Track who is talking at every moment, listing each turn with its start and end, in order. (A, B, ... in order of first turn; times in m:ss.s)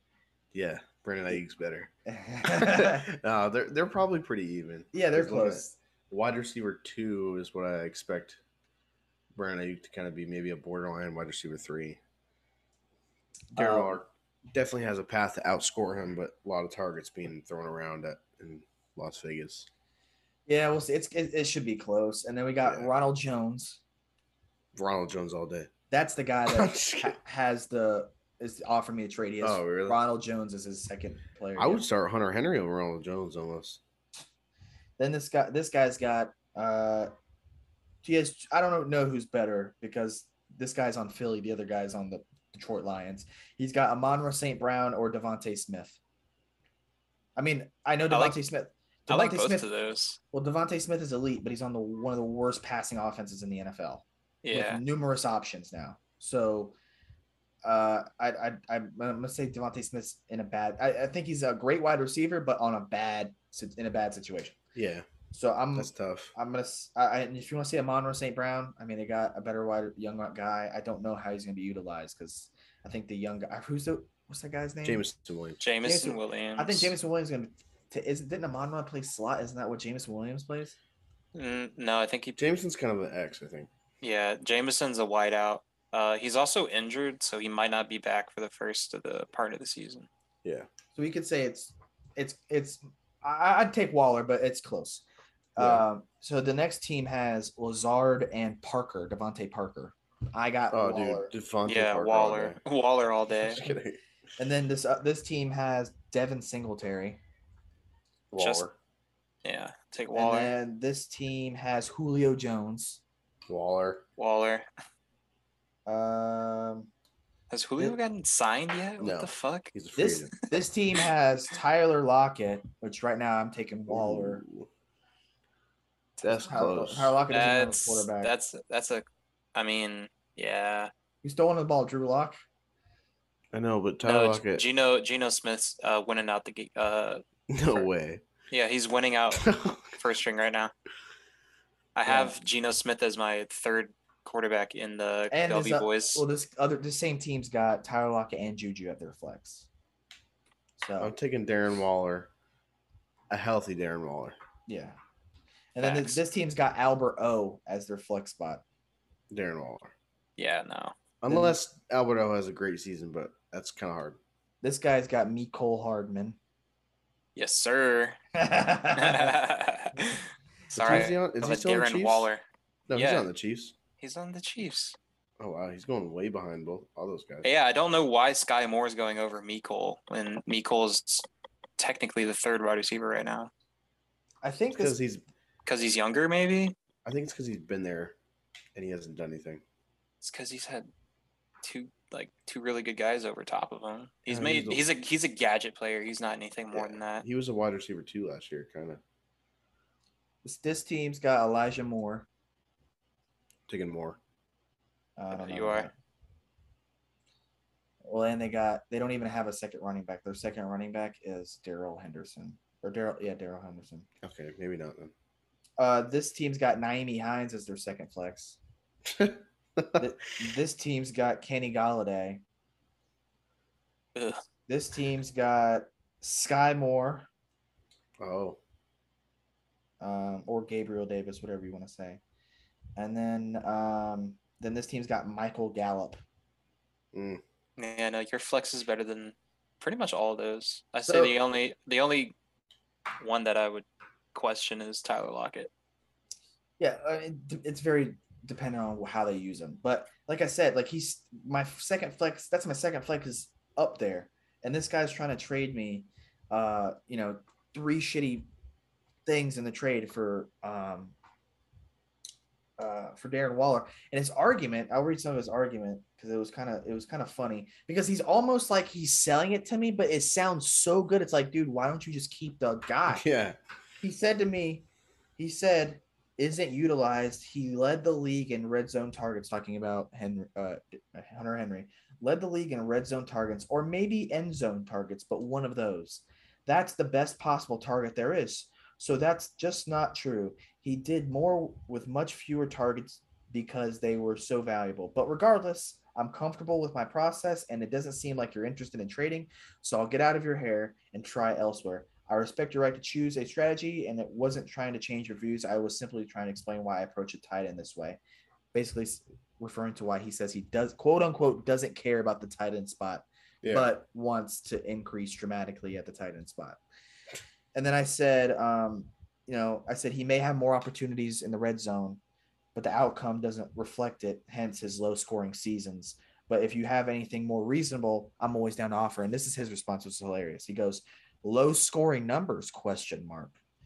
0:00.5-0:01.9 A
0:02.0-0:03.1 B
0:02.4-0:08.4 A
0:04.9-0:05.8 B
0:09.3-0:12.0 A
0:13.5-0:14.0 B
0:13.5-0:19.7 A
0:20.5-0:23.8 B
0:24.7-0:25.7 A
0:25.9-0:31.8 B
0:26.5-0:27.1 A
0:29.4-0:30.0 A
0:31.6-0:33.8 A
0:35.0-0:37.1 B
0:38.0-0:46.0 B
0:47.4-0:49.7 B
0:48.1-0:48.4 C
0:49.1-0:50.2 C
0:50.3-0:56.7 B
0:54.4-0:54.8 C
0:57.6-1:04.6 B
1:04.7-1:05.0 A
1:05.3-1:15.1 B
1:05.8-1:06.3 A
1:14.8-1:15.6 A
1:15.6-1:16.9 C
1:15.8-1:20.8 B
1:21.3-1:22.5 C
1:22.4-1:23.7 A
1:24.0-1:30.1 C
1:30.9-1:35.0 B
1:35.6-1:41.3 B
1:35.6-1:35.8 A
1:40.7-1:42.6 A
1:41.6-1:43.6 C
1:43.4-1:44.0 A
1:44.4-1:47.2 B
1:48.3-1:48.7 A
1:48.4-1:48.6 C
1:49.4-1:50.5 C
1:50.1-1:53.0 B
1:53.5-1:54.0 A
1:54.2-1:54.6 C
1:55.8-1:56.9 B
1:57.5-1:59.7 C
1:59.0-2:00.3 A
2:00.0-2:04.4 B
2:03.9-2:04.7 A
2:06.2-2:08.3 B
2:06.2-2:07.2 A
2:07.3-2:10.9 C
2:11.2-2:12.4 B
2:13.5-2:14.6 A
2:14.0-2:17.2 C
2:17.5-2:18.2 A
2:18.5-2:20.7 C
2:19.3-2:19.9 A
2:22.0-2:26.2 C
2:22.0-2:22.3 B
2:25.3-2:29.7 B
2:30.8-2:31.1 B
2:31.0-2:32.3 A
2:33.3-2:34.4 A
2:34.7-2:35.0 B
2:35.7-2:38.6 B
2:35.8-2:36.2 C
2:39.3-2:39.9 A
2:40.4-2:41.0 C
2:41.2-2:44.2 A
2:41.3-2:41.6 B
2:44.6-2:46.4 B
2:47.4-2:48.2 C
2:48.3-2:49.3 B
2:48.9-2:50.2 C
2:50.7-2:51.0 B
2:50.7-2:52.3 A
2:50.8-2:52.4 C
2:52.9-2:53.8 A
2:52.9-2:53.3 C
2:54.0-2:55.0 C
2:55.4-2:57.5 A
2:57.4-3:01.2 C
3:01.8-3:03.5 C
3:04.4-3:05.0 B
3:04.8-3:05.2 A
3:05.6-3:06.7 C
3:07.0-3:08.2 A
3:08.7-3:09.6 A
3:10.2-3:10.9 C
3:11.6-3:17.2 C
3:14.3-3:14.8 A
3:16.7-3:19.0 A
3:20.4-3:22.3 B
3:23.7-3:24.2 A
3:25.2-3:25.9 B
3:25.3-3:25.9 C
3:28.0-3:34.1 B
3:34.2-3:35.1 A
3:35.8-3:38.6 B
3:39.0-3:40.0 A
3:40.0-3:42.4 B
3:44.1-3:44.4 C
3:44.7-3:47.3 B
3:48.2-3:48.6 A
3:50.0-3:52.2 B
3:53.0-3:56.2 B
3:57.1-3:57.4 A
3:57.8-4:02.3 C
4:01.0-4:01.3 B
4:03.2-4:05.7 C
4:06.8-4:18.5 B
4:19.2-4:21.1 B
4:22.8-4:33.2 B
4:33.1-4:33.6 A
4:34.0-4:34.8 B
4:35.4-5:08.2 B
5:08.7-5:16.8 B
5:17.7-5:22.2 B
5:22.7-5:33.6 B